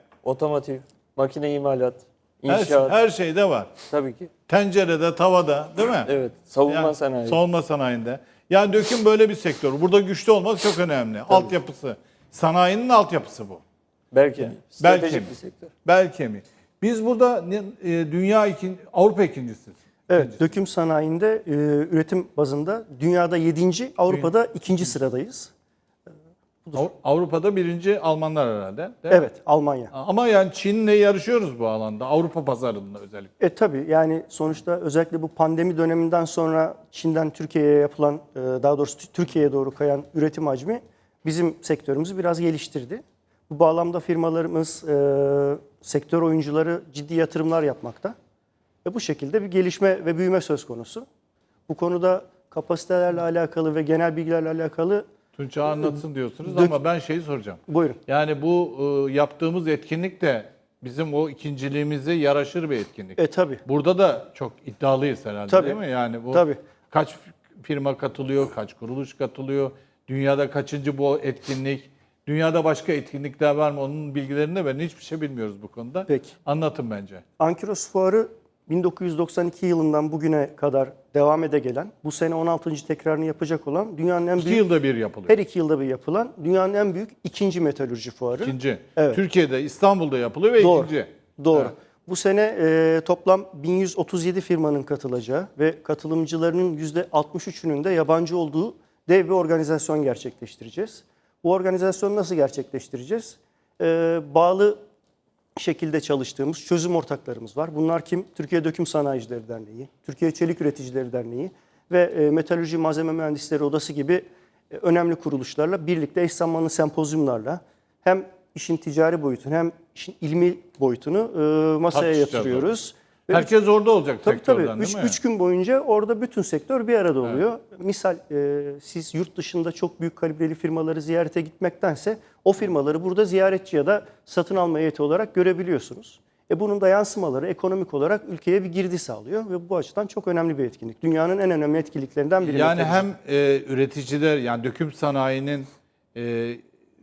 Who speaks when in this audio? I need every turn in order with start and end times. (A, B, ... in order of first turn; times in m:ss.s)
0:00.2-0:03.0 A
0:02.5-0:03.7 B
0:03.9-0:04.3 A
0:04.5-0:06.1 B
0:06.0-0:07.4 A
0:06.7-0:13.6 B
0:14.1-0:15.7 A
0:14.4-0:15.3 B
0:15.8-0:20.4 B
0:20.1-0:25.5 C
0:26.7-0:29.2 B
0:29.1-0:29.9 C
0:29.9-0:33.3 B
0:33.4-0:48.1 C
0:48.8-0:51.1 C
0:51.7-0:55.1 C
0:55.3-1:17.2 B
0:55.7-0:56.8 C
0:57.7-0:58.0 C
1:03.2-1:03.6 C
1:05.5-1:05.8 C
1:06.3-1:06.6 C
1:16.1-1:16.3 C
1:17.4-1:24.6 C
1:24.4-1:25.4 B
1:25.3-1:29.2 C
1:28.4-1:31.7 B
1:30.6-1:44.8 C
1:45.6-2:03.5 C
2:01.9-2:02.7 B
2:03.3-2:05.2 B
2:04.2-2:23.1 C
2:22.4-2:26.6 B